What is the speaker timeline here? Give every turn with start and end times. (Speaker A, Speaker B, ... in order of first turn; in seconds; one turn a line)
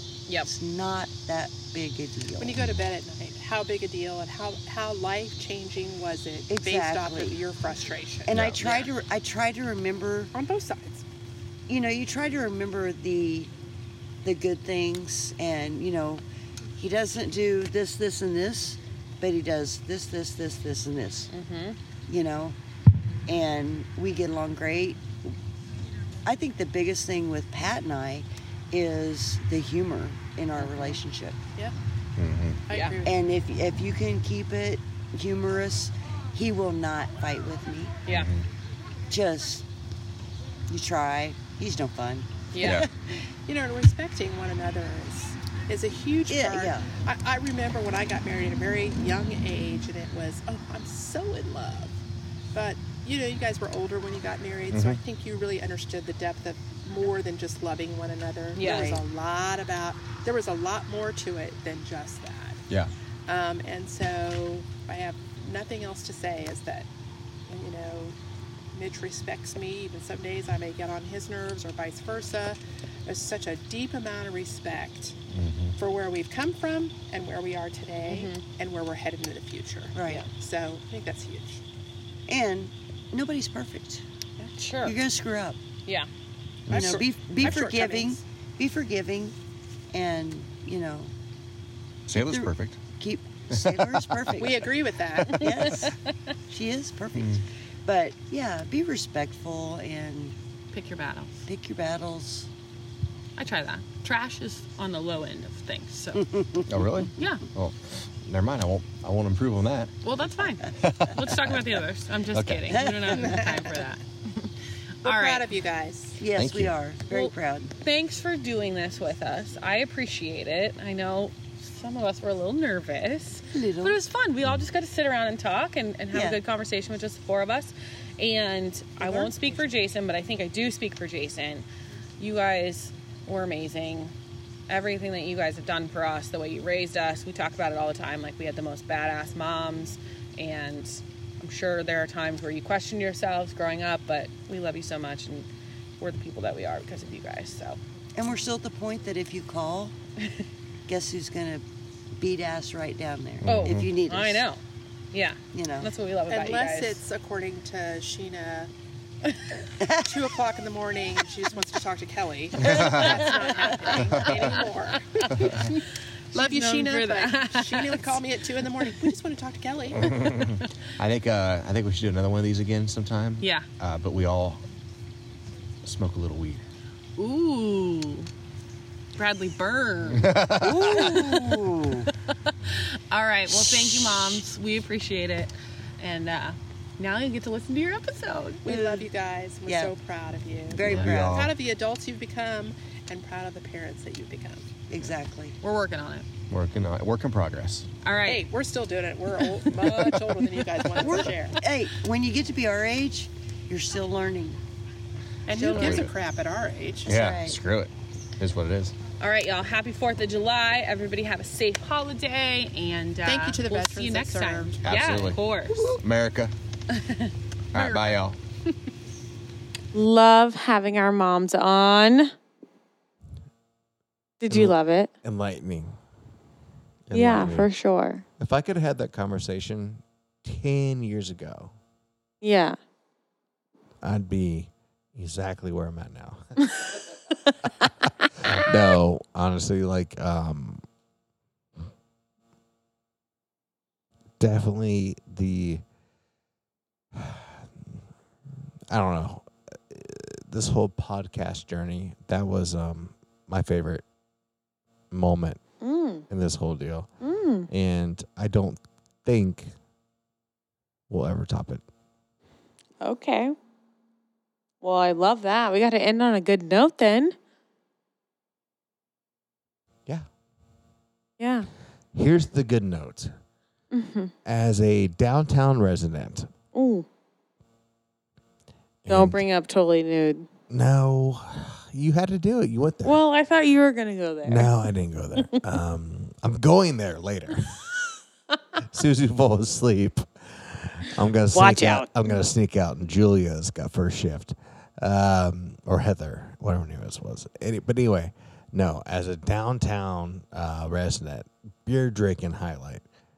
Speaker A: 0.5-2.7
Speaker B: 2.4-8.9
Speaker A: 6.5-7.4
Speaker A: 8.3-10.3
Speaker B: 10.3-11.1
Speaker A: 11.7-13.5
Speaker A: 14.2-16.2
Speaker A: 16.8-21.3
Speaker C: 21.3-21.8
Speaker A: 22.1-22.6
Speaker A: 23.3-25.3
Speaker A: 26.2-31.4
Speaker C: 30.6-31.0
Speaker D: 32.2-32.6
Speaker B: 32.7-33.2
Speaker C: 32.7-33.0
Speaker A: 33.0-38.0
Speaker D: 38.1-38.5
Speaker A: 39.1-39.7
Speaker A: 40.7-42.9
Speaker C: 42.5-42.8
Speaker D: 42.6-42.9
Speaker B: 43.5-52.0
Speaker A: 46.3-46.9
Speaker B: 52.5-62.6
Speaker D: 54.7-55.0
Speaker C: 58.5-58.9
Speaker A: 58.6-59.0
Speaker B: 63.3-66.9
Speaker B: 67.5-68.2
Speaker B: 68.7-75.2
Speaker D: 75.3-75.8
Speaker B: 75.8-81.6
Speaker C: 78.1-78.4
Speaker A: 80.0-80.3
Speaker A: 82.3-84.0
Speaker C: 84.6-85.0
Speaker A: 84.8-85.6
Speaker D: 86.7-87.5
Speaker B: 86.7-88.2
Speaker A: 86.7-89.3
Speaker A: 89.9-91.1
Speaker D: 92.1-92.8
Speaker A: 92.1-96.0
Speaker D: 93.5-94.3
Speaker B: 94.4-95.6
Speaker C: 95.2-96.0
Speaker A: 96.5-100.3
Speaker D: 97.2-97.4
Speaker C: 100.7-101.5
Speaker A: 101.5-102.5
Speaker C: 103.4-106.3
Speaker A: 106.2-107.0
Speaker D: 106.7-109.9
Speaker C: 107.2-107.4
Speaker C: 110.0-114.5
Speaker D: 110.8-111.6
Speaker D: 112.3-112.7
Speaker A: 112.7-113.6
Speaker C: 115.0-115.5
Speaker B: 115.0-116.3
Speaker A: 116.2-117.7
Speaker D: 116.3-116.8
Speaker C: 117.1-131.7
Speaker A: 123.5-124.0
Speaker A: 126.1-126.4
Speaker A: 129.0-129.3
Speaker C: 132.2-134.1
Speaker C: 134.7-145.5
Speaker C: 146.0-147.8
Speaker A: 148.2-149.9
Speaker A: 150.9-151.6
Speaker A: 152.2-154.4
Speaker D: 153.4-153.9
Speaker C: 153.4-154.6
Speaker C: 155.1-157.0
Speaker A: 155.5-155.9
Speaker B: 156.3-158.7
Speaker A: 159.8-160.3
Speaker B: 160.1-165.7
Speaker D: 162.6-163.3
Speaker C: 162.8-165.6
Speaker C: 166.3-169.1
Speaker B: 166.3-170.4
Speaker D: 170.0-174.6
Speaker C: 173.4-173.7
Speaker D: 175.8-176.6
Speaker C: 177.2-178.3
Speaker C: 179.2-180.4
Speaker D: 180.1-181.2
Speaker A: 180.6-182.1
Speaker C: 180.9-181.5
Speaker C: 182.6-188.7
Speaker B: 188.7-194.7
Speaker A: 188.7-189.1
Speaker A: 189.7-189.9
Speaker A: 190.7-191.5
Speaker D: 190.8-191.5
Speaker A: 194.9-195.6
Speaker C: 195.6-196.3
Speaker D: 196.5-197.9
Speaker C: 198.0-198.5
Speaker B: 198.3-201.6
Speaker C: 199.6-201.2
Speaker A: 201.0-204.6
Speaker B: 205.5-207.2
Speaker C: 205.6-206.0
Speaker A: 205.6-206.1
Speaker D: 205.7-206.1
Speaker D: 207.1-209.0
Speaker A: 207.1-207.6
Speaker C: 209.2-216.0
Speaker B: 213.2-215.1
Speaker D: 214.8-216.5
Speaker C: 216.9-218.2
Speaker D: 217.7-218.4
Speaker E: 219.9-222.3
Speaker E: 224.4-225.1
Speaker F: 224.5-226.0
Speaker F: 227.1-227.7
Speaker D: 227.1-227.7
Speaker E: 227.1-228.2
Speaker F: 228.4-231.7
Speaker E: 232.4-232.8
Speaker F: 234.0-236.5
Speaker F: 238.4-240.8
Speaker F: 244.4-245.8
Speaker F: 247.1-248.0
Speaker F: 248.9-254.0
Speaker F: 255.1-255.6
Speaker E: 255.8-256.3
Speaker F: 256.3-257.1
Speaker E: 257.2-257.7
Speaker F: 257.7-259.7
Speaker F: 261.1-261.8
Speaker E: 263.0-263.6
Speaker E: 264.8-267.4
Speaker E: 271.4-271.7
Speaker F: 272.1-273.4
Speaker E: 273.9-274.3
Speaker F: 274.4-276.5
Speaker E: 276.7-277.1
Speaker F: 279.0-279.4
Speaker E: 279.1-280.5
Speaker F: 280.7-283.2
Speaker E: 283.0-284.7
Speaker F: 284.4-287.8
Speaker F: 288.8-303.0
Speaker E: 291.5-292.1